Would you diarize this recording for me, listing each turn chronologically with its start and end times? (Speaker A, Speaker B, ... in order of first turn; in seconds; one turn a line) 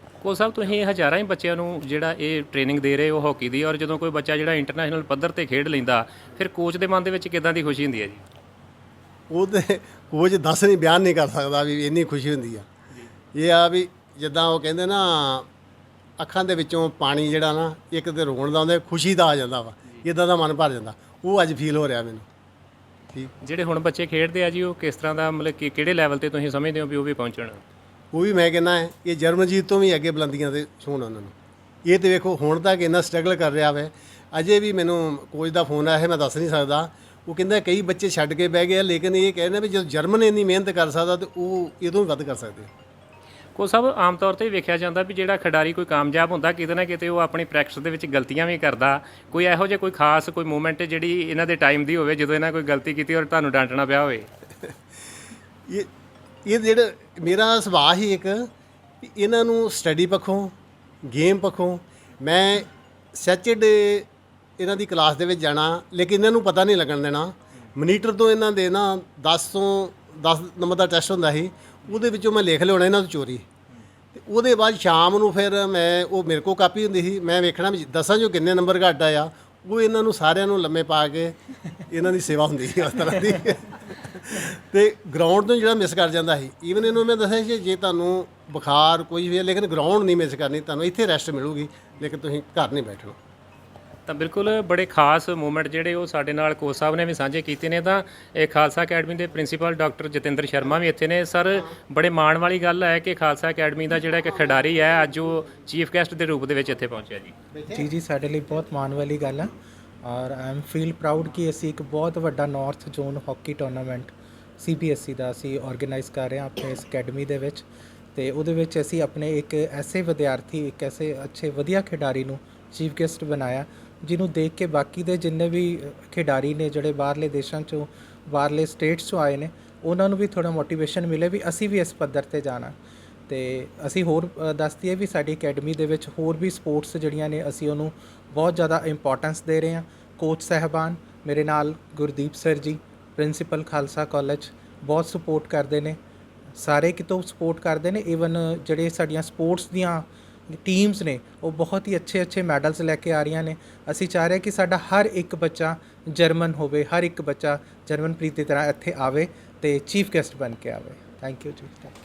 Speaker A: 0.2-8.2
Speaker B: 9.3-12.7
Speaker B: 13.3-15.5
Speaker B: 16.2-22.2
Speaker A: 23.4-27.6
Speaker B: 28.1-31.3
Speaker B: 31.8-42.7
Speaker A: 43.5-54.3
Speaker B: 56.5-58.5
Speaker B: 59.0-60.5
Speaker B: 61.0-64.1
Speaker B: 64.6-73.5
Speaker B: 74.1-81.3
Speaker B: 81.9-93.2
Speaker A: 94.1-107.3
Speaker B: 107.5-107.8
Speaker C: 107.7-132.8
Speaker C: 133.3-146.0
Speaker C: 146.6-161.9